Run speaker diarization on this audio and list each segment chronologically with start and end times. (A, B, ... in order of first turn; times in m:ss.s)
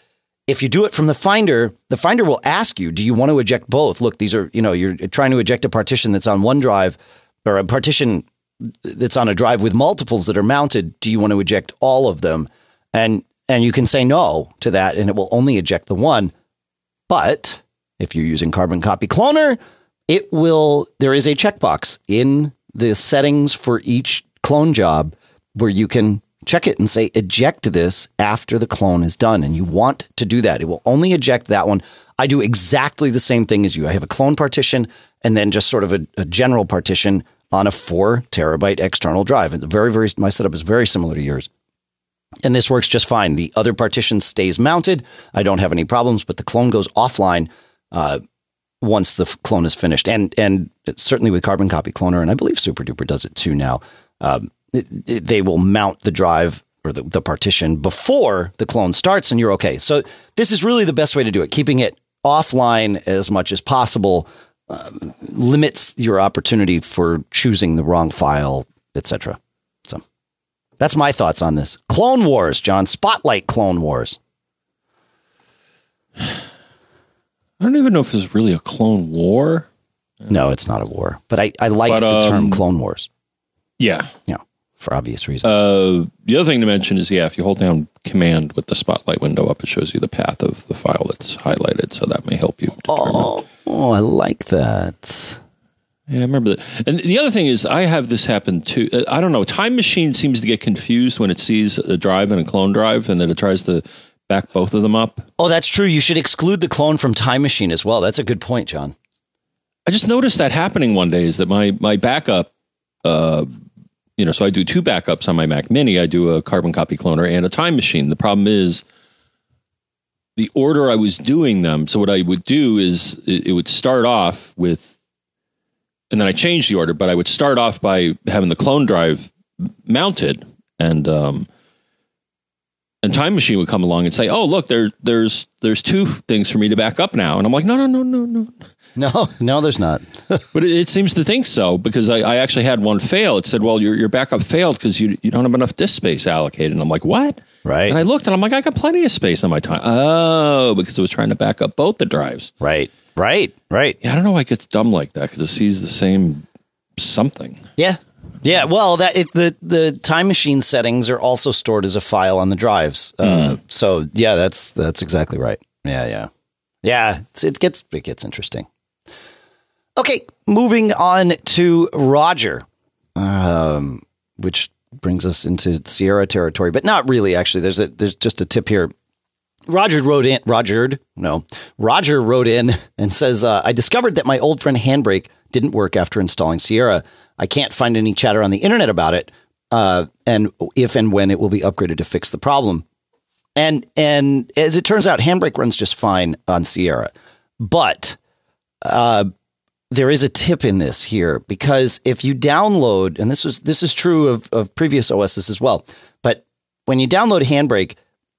0:00.5-0:16.3 A
0:17.1-0:41.5 A
0:42.4-0:48.2 A
0:48.8-1:10.0 A
1:10.8-1:14.2 A
1:17.6-1:19.7 B
1:20.3-1:23.1 A
1:21.9-1:22.6 B
1:23.8-1:24.1 B
1:24.3-1:25.5 A
1:25.4-1:33.3 B
1:32.9-1:35.4 A
1:36.1-1:45.3 B
1:45.4-1:49.0 A
1:49.9-1:52.5 B
1:53.0-1:53.5 B
1:54.2-1:58.8 B
2:00.4-2:04.9 B
2:06.1-2:11.5 B
2:13.0-2:18.6 B
2:19.0-2:20.4 A
2:20.5-2:32.5 B
2:27.6-2:28.0 A
2:32.6-2:34.0 A
2:34.0-2:36.5 B
2:37.0-2:37.7 B
2:37.8-2:46.3 A
2:43.3-2:43.6 B
2:46.8-2:48.7 A
2:50.0-2:52.6 A
2:53.2-2:58.9 A
2:59.7-3:12.8 A
3:13.6-3:18.2 A
3:18.8-3:19.3 A
3:19.9-3:28.0 A